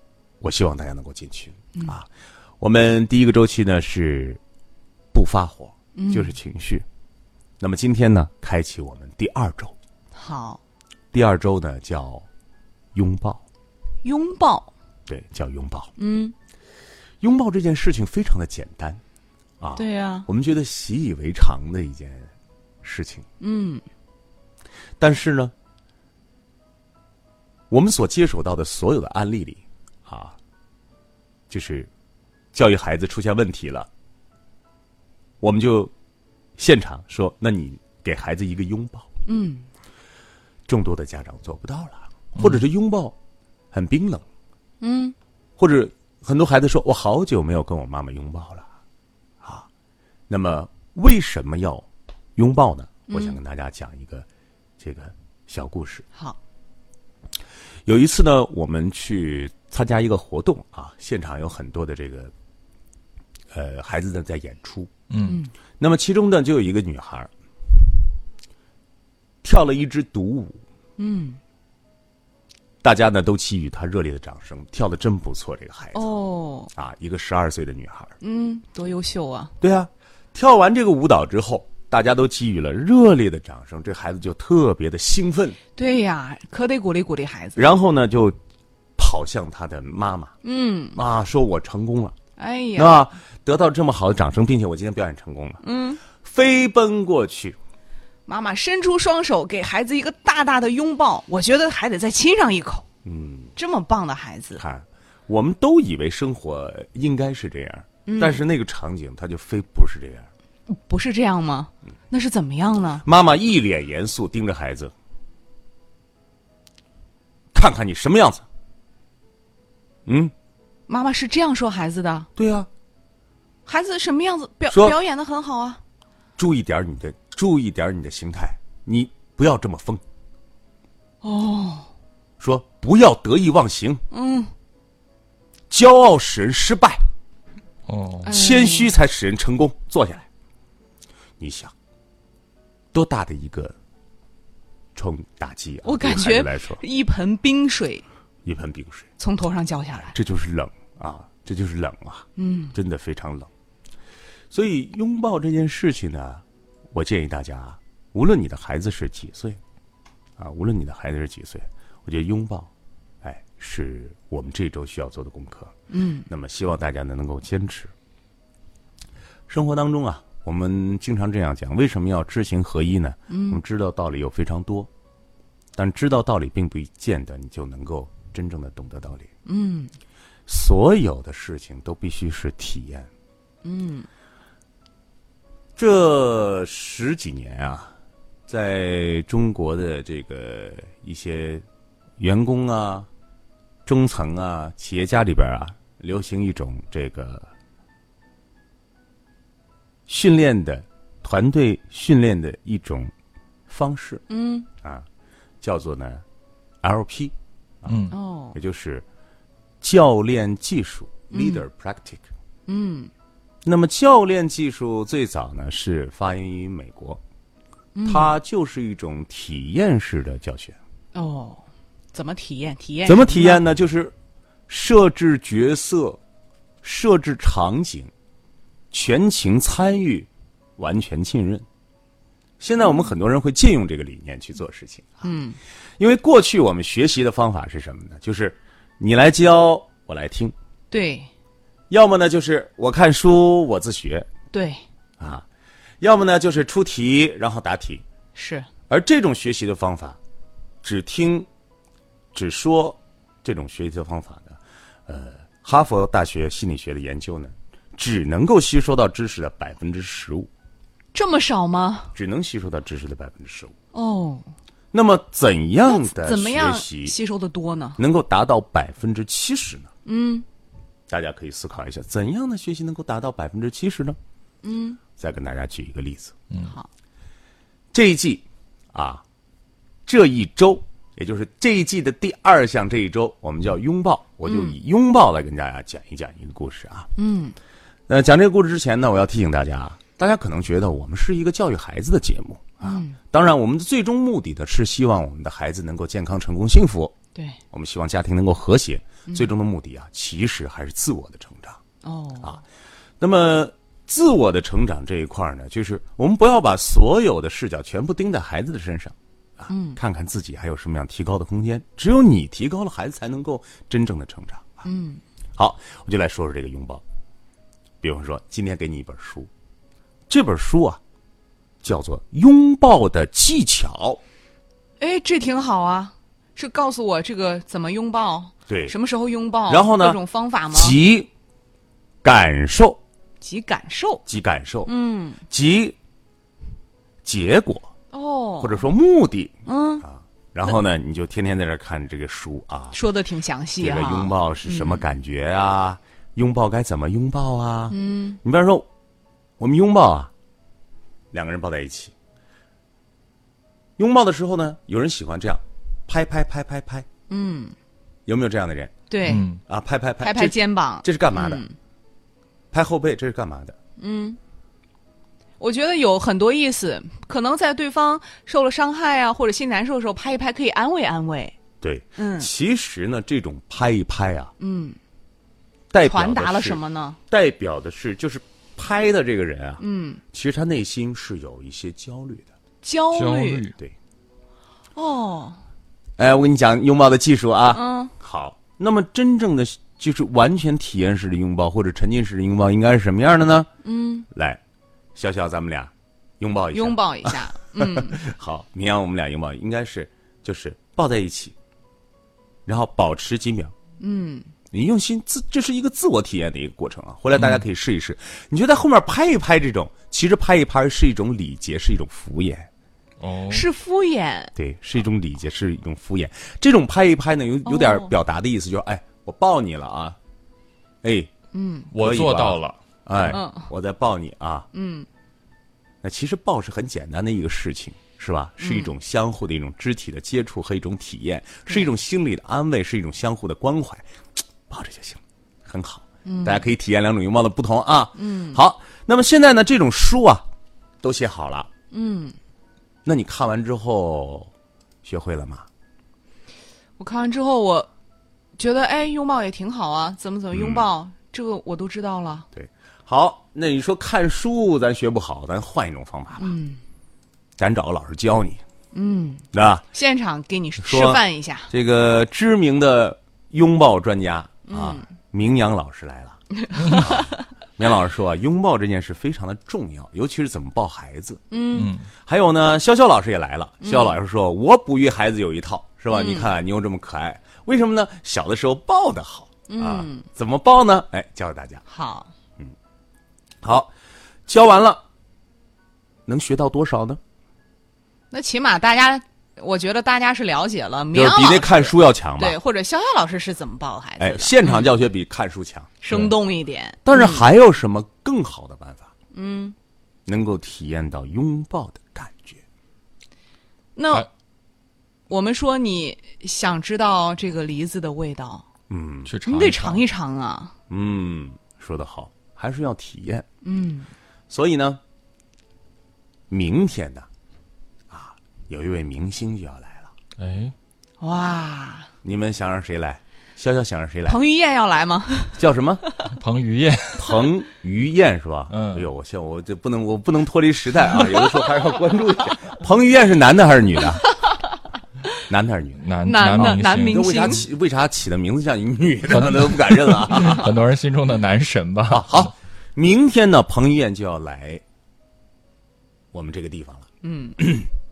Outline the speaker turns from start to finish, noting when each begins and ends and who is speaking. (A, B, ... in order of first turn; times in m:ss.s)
0:00.4-0:02.1 A
0:02.6-0:04.4 A
0:05.1-0:06.9 A
0:06.0-0:06.4 B
0:07.6-0:09.7 A
0:10.2-0:10.6 B
0:11.1-0:12.3 A
0:12.9-0:13.4 A
0:14.0-0:14.7 B
0:15.1-0:15.9 A
0:16.0-0:16.4 B
0:17.2-0:19.0 A
0:19.6-0:22.3 A
0:19.8-0:20.3 B
0:22.8-0:23.3 A
0:23.4-0:23.8 B
0:25.0-0:25.5 A
0:27.7-0:30.4 A
0:31.5-0:31.9 A
0:32.5-0:33.9 A
0:35.4-0:35.9 A
0:36.6-0:39.1 A
0:39.3-0:39.7 B
0:40.7-0:43.2 A
0:43.7-0:44.2 A
0:44.8-0:45.2 B
0:45.6-0:48.7 A
0:49.4-0:49.7 A
0:50.3-0:54.3 A
0:53.1-0:53.4 B
0:54.8-0:56.0 A
0:57.9-1:02.3 A
1:03.5-1:04.9 A
1:05.1-1:05.4 C
1:05.2-1:05.5 B
1:05.8-1:07.3 A
1:09.4-1:10.6 A
1:11.0-1:11.4 B
1:12.8-1:16.2 A
1:15.9-1:16.7 B
1:16.7-1:18.2 A
1:18.2-1:19.5 B
1:19.6-1:25.6 A
1:25.8-1:27.7 B
1:27.6-1:28.4 A
1:29.0-1:30.3 A
1:30.4-1:31.0 B
1:31.0-1:32.2 A
1:32.4-1:33.0 B
1:32.8-1:37.6 A
1:35.6-1:36.0 B
1:38.3-1:42.9 B
1:43.0-1:43.5 A
1:43.6-1:44.6 B
1:44.6-1:50.3 A
1:48.1-1:48.4 B
1:50.7-1:53.0 B
1:53.0-1:54.9 A
1:57.5-1:58.5 A
2:00.1-2:00.3 A
2:00.9-2:02.3 B
2:02.4-2:02.7 A
2:03.7-2:05.8 B
2:04.7-2:05.0 A
2:06.4-2:10.0 A
2:11.2-2:11.9 B
2:12.4-2:14.0 A
2:14.1-2:14.5 B
2:15.7-2:17.0 A
2:17.9-2:18.3 C
2:18.2-2:19.0 B
2:18.3-2:20.3 A
2:21.4-2:21.7 A
2:22.9-2:23.8 A
2:25.0-2:26.8 A
2:25.8-2:28.0 B
2:28.4-2:29.1 A
2:29.2-2:30.1 B
2:30.0-2:33.5 A
2:32.4-2:32.8 B
2:34.5-2:39.6 A
2:40.4-2:42.7 A
2:43.2-2:45.7 A
2:45.9-2:46.3 B
2:46.3-2:47.9 A
2:49.5-2:54.9 A
2:53.3-2:53.6 B
2:55.8-2:59.3 A
2:59.5-2:59.9 B
3:00.5-3:03.1 A
3:03.6-3:04.1 B
3:05.8-3:07.9 A
3:08.5-3:11.7 A
3:12.2-3:13.1 A
3:13.8-3:17.5 A
3:20.1-3:23.1 A
3:23.7-3:24.2 A
3:24.3-3:24.7 B
3:24.8-3:25.1 A
3:25.6-3:26.2 A
3:26.8-3:29.0 A
3:27.9-3:28.1 C
3:28.1-3:28.6 B
3:29.8-3:32.2 A
3:31.3-3:31.6 B
3:32.7-3:33.1 B
3:33.6-3:37.2 A
3:38.0-3:38.3 B
3:38.1-3:40.8 A
3:41.1-3:41.6 B
3:42.1-3:43.6 B
3:43.0-3:44.1 A
3:44.7-3:46.2 A
3:46.8-3:48.1 A
3:48.9-3:51.7 A
3:52.6-3:55.2 A
3:55.2-3:55.6 B
3:56.0-4:00.6 A
4:00.9-4:01.3 B
4:01.9-4:04.3 A
4:04.5-4:04.8 B
4:05.2-4:05.4 A
4:06.0-4:08.0 A
4:08.4-4:08.7 B
4:08.9-4:10.2 A
4:10.8-4:11.5 A
4:12.3-4:20.5 A
4:21.1-4:22.1 B
4:22.2-4:23.7 A
4:23.9-4:24.5 B
4:24.9-4:27.2 A
4:25.9-4:28.0 B
4:28.0-4:29.9 A
4:30.1-4:30.5 B
4:31.1-4:34.2 A
4:34.6-4:35.0 B
4:35.2-4:36.3 A
4:37.9-4:39.2 A
4:40.1-4:47.1 A
4:44.5-4:44.8 B
4:47.2-4:47.6 B
4:48.1-4:57.2 A
4:52.8-4:53.2 B
4:57.7-5:01.8 A
5:02.0-5:02.6 B
5:03.2-5:14.8 A
5:09.7-5:10.0 B
5:14.8-5:15.2 B
5:15.6-5:17.0 A
5:18.0-5:19.5 A
5:20.3-5:21.0 A
5:21.8-5:24.2 A
5:25.0-5:31.0 B
5:28.7-5:29.0 A
5:29.7-5:30.2 A
5:30.7-5:31.3 A
5:32.2-5:33.0 A
5:33.4-5:34.2 B
5:34.3-5:34.9 A
5:34.8-5:35.4 B
5:35.5-5:36.0 A
5:37.2-5:37.9 A
5:38.1-5:38.8 B
5:38.6-5:43.0 A
5:39.7-5:40.0 B
5:42.9-5:45.0 B
5:43.8-5:48.9 A
5:47.9-5:48.4 B
5:49.6-5:50.3 A
5:51.3-5:52.1 A
5:54.0-5:57.1 A
5:57.3-5:57.8 B
5:58.3-5:59.0 A
5:59.1-5:59.5 B
5:59.2-5:59.6 C
5:59.6-6:01.6 A
6:00.2-6:01.8 B
6:02.7-6:03.8 A
6:04.0-6:04.4 B
6:05.6-6:11.6 B
6:11.8-6:14.5 A
6:12.2-6:12.5 B
6:14.6-6:15.0 B
6:15.9-6:19.8 A
6:16.0-6:17.2 B
6:19.8-6:20.2 B
6:20.3-6:22.5 A
6:22.8-6:23.6 B
6:23.1-6:23.8 C
6:25.0-6:25.6 B
6:26.2-6:33.7 A
6:27.7-6:28.1 B
6:33.8-6:34.3 B
6:34.3-6:34.6 A
6:35.2-6:41.6 A
6:36.7-6:38.3 B
6:42.7-6:43.7 A
6:44.0-6:44.5 B
6:44.7-6:52.7 A
6:47.4-6:47.6 C
6:53.2-6:53.7 C
6:53.5-6:54.5 B
6:54.6-7:00.2 A
6:57.6-6:58.1 B
7:01.0-7:01.3 A
7:01.5-7:01.9 B
7:01.9-7:03.4 C
7:02.0-7:04.7 A
7:03.3-7:03.7 B
7:04.7-7:05.1 B
7:06.0-7:14.1 A
7:08.6-7:08.9 B
7:14.7-7:20.5 A
7:16.2-7:16.7 B
7:18.2-7:18.6 B
7:21.0-7:21.7 A
7:21.9-7:22.4 B
7:23.1-7:24.5 A
7:25.0-7:25.7 A
7:27.0-7:27.9 B
7:28.6-7:32.5 B
7:30.5-7:30.9 A
7:32.5-7:36.5 A
7:36.4-7:36.8 B
7:37.6-7:38.6 A
7:38.9-7:41.7 B
7:39.5-7:39.8 A
7:40.8-7:51.4 A
7:44.7-7:45.1 B
7:46.7-7:47.4 B
7:51.5-7:51.9 B
7:51.7-7:52.1 C
7:52.2-8:01.8 A
7:53.8-7:54.2 B
7:56.1-7:56.5 B
7:59.7-8:00.3 B
8:01.9-8:02.3 B
8:03.6-8:03.9 A
8:04.5-8:05.0 A
8:06.3-8:07.2 A
8:08.3-8:14.9 B
8:11.1-8:12.6 A
8:14.2-8:16.0 A
8:16.0-8:17.5 B
8:17.0-8:19.1 A
8:19.3-8:19.8 B
8:20.3-8:22.6 A
8:24.0-8:24.3 B
8:25.3-8:28.7 B
8:28.9-8:29.3 A
8:29.3-8:30.0 C
8:29.5-8:30.7 B
8:30.9-8:33.4 A
8:33.6-8:34.1 B
8:34.5-8:35.0 A
8:36.5-8:37.3 A
8:38.1-8:40.1 A
8:40.4-8:40.8 C
8:41.2-8:42.1 B
8:42.2-8:44.4 A
8:44.3-8:46.3 B
8:45.6-8:46.0 A
8:46.3-8:47.5 C
8:47.2-8:54.2 A
8:48.7-8:49.1 C
8:54.2-8:54.6 B
8:55.5-8:56.0 A
8:56.0-8:57.6 C
8:56.2-8:57.6 B
8:56.6-9:00.7 A
8:59.3-9:02.5 C
9:02.1-9:04.8 A
9:06.3-9:07.1 A
9:07.2-9:07.6 B
9:07.6-9:07.9 A